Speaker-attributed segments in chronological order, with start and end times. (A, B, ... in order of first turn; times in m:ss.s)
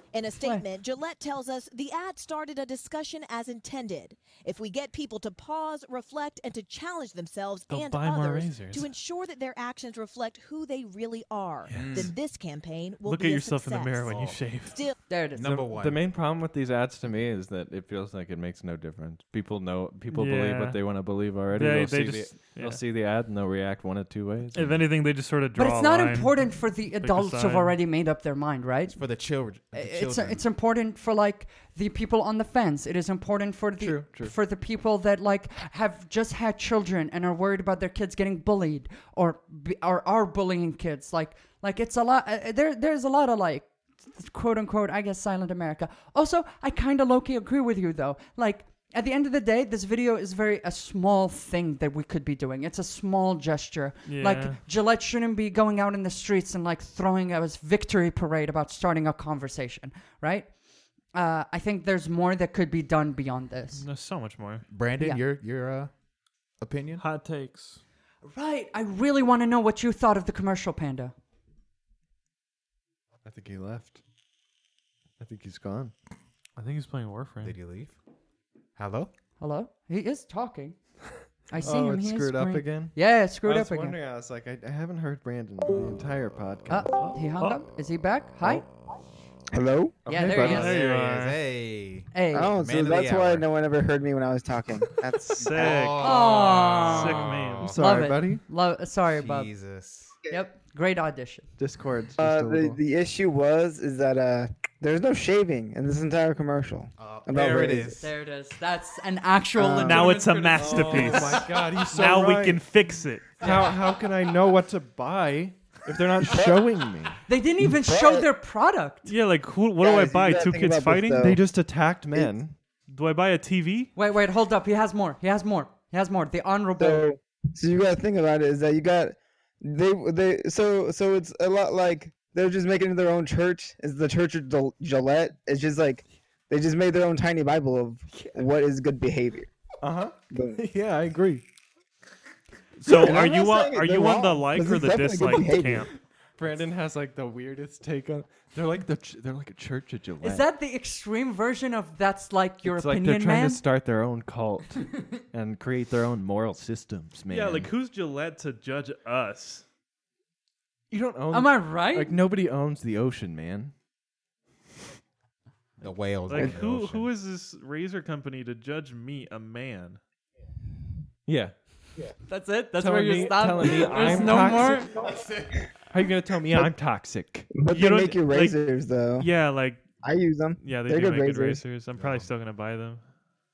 0:00.1-0:15.0 A
0:07.7-0:08.9 B
0:11.6-0:12.1 B
0:11.7-0:12.1 C
0:13.0-0:14.8 B
0:14.0-0:14.4 C
0:15.1-0:15.5 D
0:15.3-0:16.0 C
0:15.4-0:24.8 E
0:20.1-0:22.8 B
0:24.5-0:27.7 B
0:25.6-0:29.0 D
0:28.9-0:30.4 C
0:29.7-1:03.8 D
0:33.8-0:34.3 E
0:54.1-0:54.6 B
1:03.8-1:04.7 B
1:04.7-1:05.9 C
1:06.6-1:07.0 C
1:07.0-1:07.8 B
1:08.2-1:11.1 D
1:13.2-1:14.0 E
1:15.2-1:15.9 E
1:16.6-1:17.6 B
1:17.4-1:17.9 C
1:18.8-1:19.1 C
1:19.4-1:20.8 D
1:21.5-1:24.0 D
1:21.6-1:27.2 E
1:26.7-1:28.7 D
1:28.4-1:29.1 C
1:29.5-1:30.0 F
1:30.0-1:30.7 E
1:30.1-1:30.8 D
1:30.3-1:33.5 C
1:30.4-1:31.4 B
1:32.1-1:32.5 D
1:32.3-1:35.7 F
1:35.2-1:37.7 B
1:35.4-1:37.8 C
1:36.0-1:39.5 D
1:37.6-1:38.4 E
1:39.1-1:40.2 C
1:40.3-1:41.5 D
1:41.6-1:42.8 E
1:42.2-1:48.0 F
1:47.0-1:48.0 C
1:48.0-1:51.4 D
1:49.6-1:50.2 F
1:49.8-1:53.4 B
1:50.5-1:52.6 E
1:53.4-1:57.2 E
1:57.3-1:59.1 D
1:57.7-1:58.3 F
1:59.0-2:01.2 B
1:59.8-2:01.4 F
2:01.2-2:02.5 E
2:02.9-2:03.9 B
2:03.9-2:07.0 D
2:06.8-2:19.5 F
2:19.8-2:21.4 E
2:20.3-2:20.6 F
2:22.8-2:25.9 B
2:22.9-2:25.9 F
2:26.4-2:30.4 E
2:30.2-2:33.6 D
2:32.6-2:37.7 E
2:37.3-2:39.6 B
2:40.9-2:43.7 E
2:41.3-2:42.2 D
2:45.8-2:47.1 C
2:46.2-2:50.0 B
2:51.2-2:51.5 E
2:52.2-2:55.0 D
2:52.8-2:55.1 E
2:53.9-2:55.7 C
2:55.9-2:57.5 E
2:57.5-2:59.3 F
2:57.7-2:58.6 B
2:59.2-2:59.8 B
3:00.0-3:01.6 F
3:00.6-3:03.0 B
3:01.9-3:02.3 C